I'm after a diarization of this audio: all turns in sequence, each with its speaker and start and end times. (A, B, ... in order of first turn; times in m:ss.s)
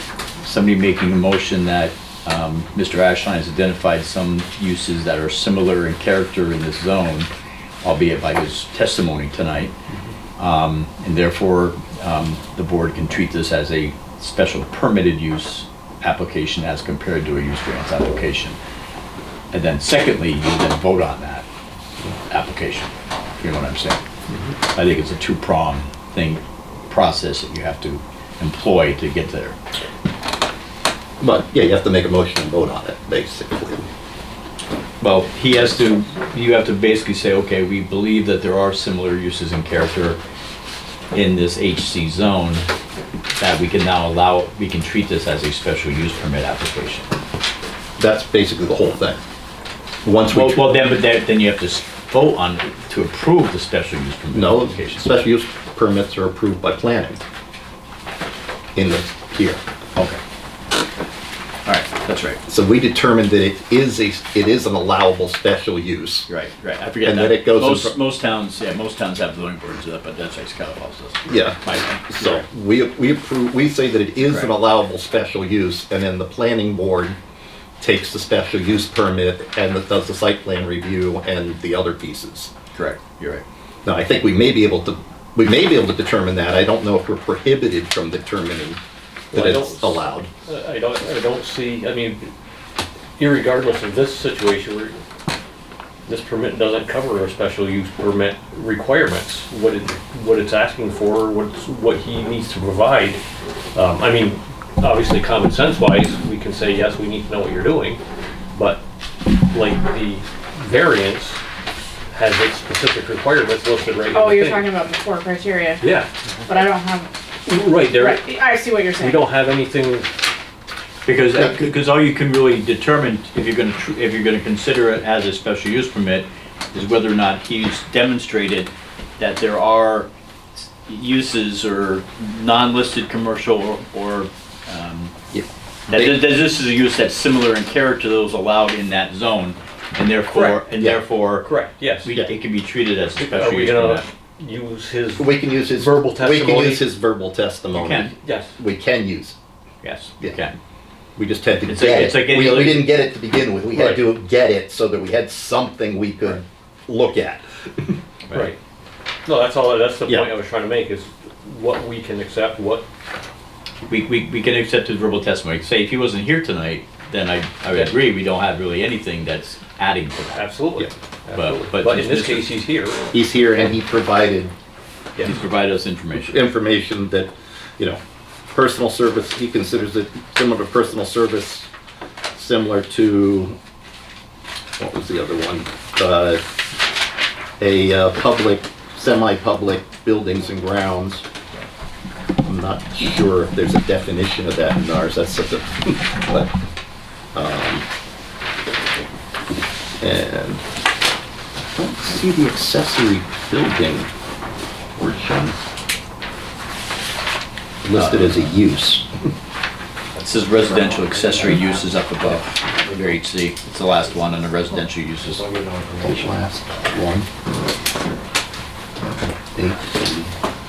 0:00.4-0:07.3 A
0:07.8-0:09.8 A
0:10.4-0:18.6 A
0:19.5-0:21.4 A
0:22.3-0:24.0 A
0:24.7-0:29.6 A
0:31.2-0:33.9 B
0:35.0-0:40.2 A
0:41.1-0:42.7 A
0:43.4-0:47.1 A
0:48.0-0:49.2 B
0:50.0-0:50.8 B
0:50.3-0:55.1 A
0:54.3-0:57.2 B
0:58.8-0:59.6 B
1:01.7-1:02.4 A
1:02.5-1:06.3 B
1:06.3-1:12.4 A
1:07.0-1:07.9 B
1:11.3-1:17.2 B
1:17.8-1:22.5 B
1:22.7-1:23.4 A
1:23.8-1:28.8 B
1:29.3-1:32.3 C
1:29.3-1:30.3 B
1:33.2-1:35.0 C
1:36.1-1:43.2 C
1:43.7-1:48.0 C
1:48.6-1:48.8 C
1:49.5-1:51.4 C
1:52.1-1:54.7 C
1:54.1-1:55.8 D
1:55.8-1:56.1 C
1:56.5-1:57.1 D
1:57.4-2:00.1 C
1:57.8-1:59.2 D
2:01.1-2:15.2 A
2:15.3-2:16.2 B
2:15.9-2:24.1 A
2:20.4-2:20.6 C
2:21.5-2:22.1 C
2:23.2-2:26.8 C
2:25.2-2:29.4 B
2:27.7-2:28.1 A
2:28.2-2:28.6 C
2:29.8-2:30.5 A
2:31.2-2:37.9 B
2:31.7-2:32.9 A
2:33.7-2:34.0 C
2:38.3-2:38.6 C
2:39.2-2:42.9 C
2:43.9-2:50.5 A
2:50.3-2:53.1 C
2:51.4-2:52.5 A
2:53.1-2:54.5 B
2:55.2-2:56.4 A
2:56.2-3:01.7 B
3:02.4-3:03.6 B
3:04.8-3:06.4 B
3:07.6-3:11.3 B
3:12.5-3:16.5 B
3:17.3-3:17.9 B
3:20.0-3:20.6 B
3:21.8-3:24.1 B
3:25.0-3:25.6 B
3:27.8-3:29.1 B
3:28.0-3:28.5 A
3:30.2-3:35.4 A
3:35.4-3:36.2 C
3:36.0-3:37.3 B
3:39.2-3:40.3 B